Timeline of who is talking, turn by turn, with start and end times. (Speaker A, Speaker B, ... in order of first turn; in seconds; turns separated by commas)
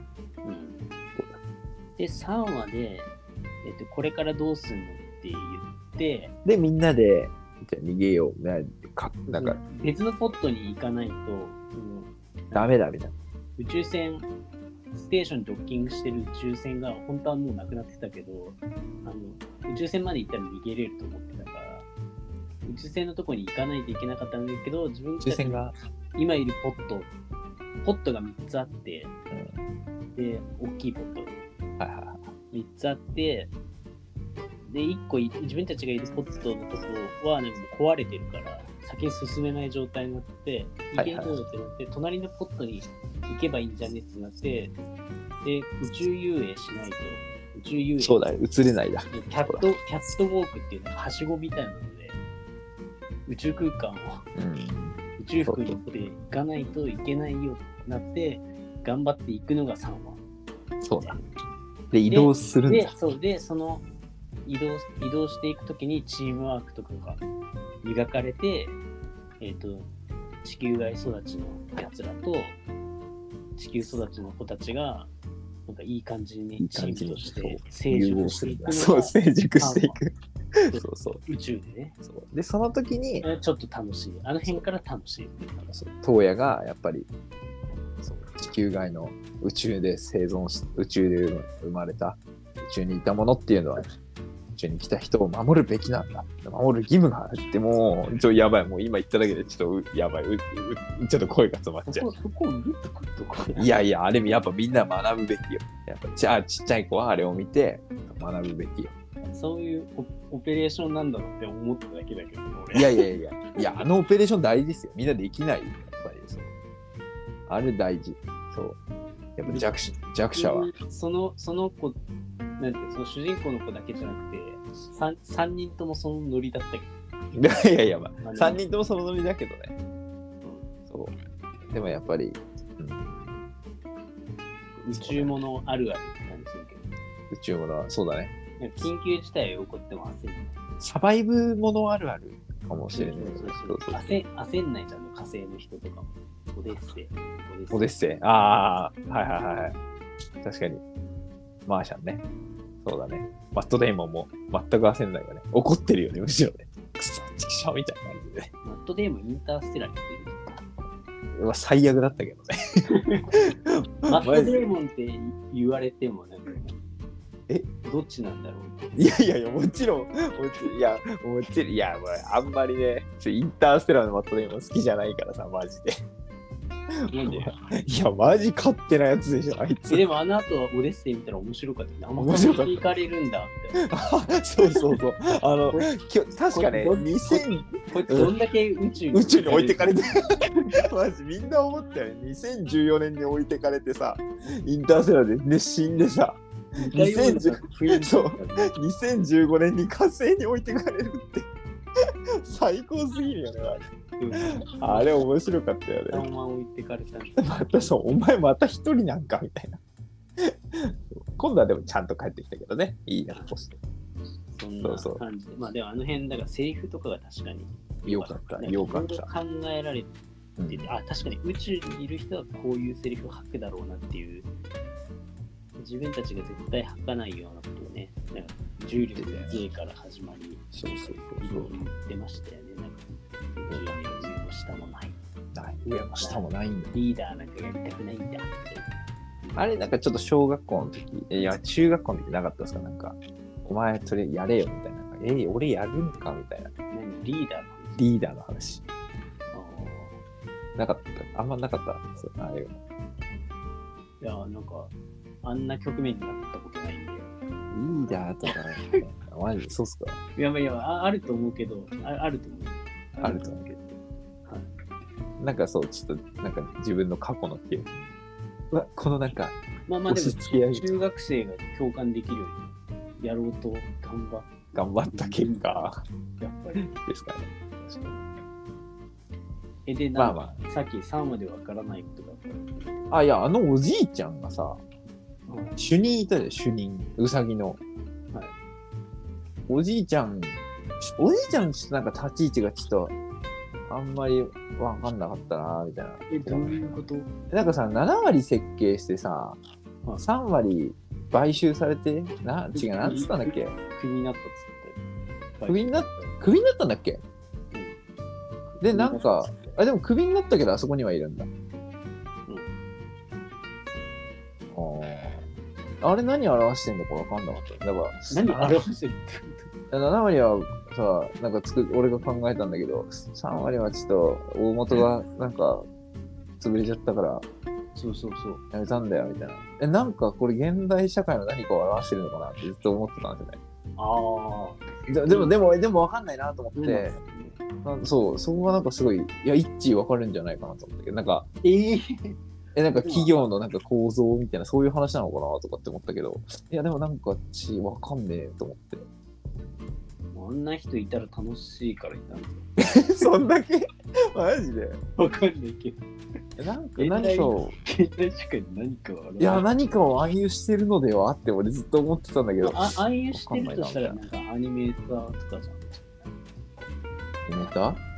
Speaker A: 0.4-0.8, Speaker A: 2.0-3.1, Speaker A: 3.6-6.3, Speaker B: 6.5-9.6, Speaker A: 9.3-12.7, Speaker B: 12.5-13.1, Speaker A: 13.6-14.3, Speaker A: 14.9-21.9, Speaker A: 22.6-27.1, Speaker B: 25.2-25.8, Speaker A: 27.8-29.1, Speaker B: 29.3-29.6, Speaker A: 30.1-31.4, Speaker B: 31.8-32.2, Speaker A: 32.5-33.5, Speaker A: 34.7-44.7, Speaker B: 41.0-41.4, Speaker A: 45.4-48.3, Speaker B: 48.0-49.7, Speaker A: 49.1-52.2, Speaker A: 53.3-54.2, Speaker B: 54.4-55.8, Speaker A: 55.2-60.2, Speaker B: 60.8-61.2, Speaker B: 61.9-62.9, Speaker A: 62.1-63.9, Speaker A: 64.5-67.2, Speaker A: 67.8-68.8, Speaker A: 69.4-69.9, Speaker A: 70.4-72.6, Speaker A: 73.6-75.1, Speaker A: 75.7-80.0, Speaker B: 76.6-80.1, Speaker B: 80.7-81.2, Speaker A: 80.7-82.0, Speaker B: 82.0-83.3, Speaker A: 83.2-85.8, Speaker B: 85.7-87.1, Speaker B: 88.0-93.8, Speaker B: 94.5-102.1, Speaker A: 101.9-103.7, Speaker B: 103.6-109.0, Speaker A: 109.3-113.8, Speaker B: 112.7-116.5, Speaker B: 117.5-118.8, Speaker B: 119.4-120.7, Speaker A: 119.5-119.7, Speaker A: 120.3-122.0, Speaker A: 122.6-126.9, Speaker B: 127.3-129.7, Speaker A: 128.2-128.6, Speaker B: 130.9-131.1, Speaker B: 131.7-133.3, Speaker A: 134.8-136.9, Speaker B: 134.9-135.3, Speaker B: 137.3-138.4, Speaker A: 138.6-140.5, Speaker B: 140.8-144.2, Speaker A: 142.9-147.9, Speaker B: 147.7-149.8, Speaker B: 150.4-150.8, Speaker B: 151.7-152.2, Speaker B: 152.8-158.5, Speaker A: 158.6-160.6, Speaker B: 161.3-162.5, Speaker A: 162.9-163.3, Speaker B: 163.7-164.6, Speaker A: 164.1-166.7, Speaker A: 167.8-168.8, Speaker B: 168.9-175.9, Speaker B: 177.0-180.1, Speaker A: 177.1-177.5, Speaker A: 179.9-185.0, Speaker B: 182.2-182.9, Speaker B: 183.8-188.3, Speaker A: 186.5-190.0, Speaker B: 189.1-196.4, Speaker A: 196.8-198.7, Speaker B: 196.9-201.5, Speaker B: 202.4-203.9, Speaker A: 204.2-205.4, Speaker B: 204.4-206.2, Speaker A: 206.1-207.9, Speaker B: 207.4-209.8, Speaker B: 210.4-213.8, Speaker A: 213.3-213.7, Speaker A: 214.5-220.1, Speaker B: 214.8-215.2, Speaker B: 218.1-219.3, Speaker B: 220.6-220.9, Speaker A: 220.7-224.5, Speaker A: 225.8-235.2, Speaker B: 229.0-229.6, Speaker B: 230.7-231.7, Speaker B: 233.7-234.3, Speaker B: 235.5-237.0, Speaker A: 236.2-238.9, Speaker A: 239.4-239.9, Speaker B: 239.6-246.7, Speaker A: 246.9-248.0, Speaker B: 248.0-248.8, Speaker A: 249.5-250.2, Speaker B: 250.8-252.8, Speaker A: 254.2-257.3, Speaker B: 257.7-260.2, Speaker A: 257.9-259.0, Speaker A: 260.4-264.7, Speaker B: 263.2-263.7, Speaker B: 265.4-268.1, Speaker B: 268.7-270.9, Speaker A: 269.9-274.6, Speaker B: 274.7-276.0, Speaker A: 275.1-275.8, Speaker A: 276.4-276.9, Speaker B: 276.8-278.2, Speaker A: 279.9-283.2, Speaker B: 280.2-280.6, Speaker B: 283.1-284.8, Speaker A: 285.5-285.8, Speaker B: 285.8-287.8, Speaker B: 289.7-293.2, Speaker B: 293.9-296.8, Speaker A: 296.3-297.3, Speaker B: 297.5-299.6, Speaker B: 300.2-303.8, Speaker A: 302.7-305.0, Speaker A: 305.6-306.4, Speaker B: 305.7-307.2, Speaker A: 307.7-308.0, Speaker A: 308.7-309.6, Speaker B: 308.8-311.5, Speaker A: 312.5-312.7, Speaker B: 314.7-315.4, Speaker B: 316.0-318.8, Speaker A: 318.3-319.7, Speaker B: 319.9-325.9, Speaker B: 326.6-327.4, Speaker A: 327.9-328.6, Speaker B: 328.7-333.6, Speaker A: 334.0-335.6, Speaker B: 335.1-337.2, Speaker A: 336.8-337.6, Speaker B: 337.8-341.5, Speaker A: 341.6-342.4, Speaker B: 342.8-349.1, Speaker A: 342.9-343.3, Speaker A: 350.3-353.3, Speaker B: 352.8-355.0, Speaker A: 355.2-356.0, Speaker B: 356.6-357.8, Speaker A: 357.0-359.7, Speaker B: 359.4-364.2, Speaker A: 362.6-366.3, Speaker B: 367.5-368.0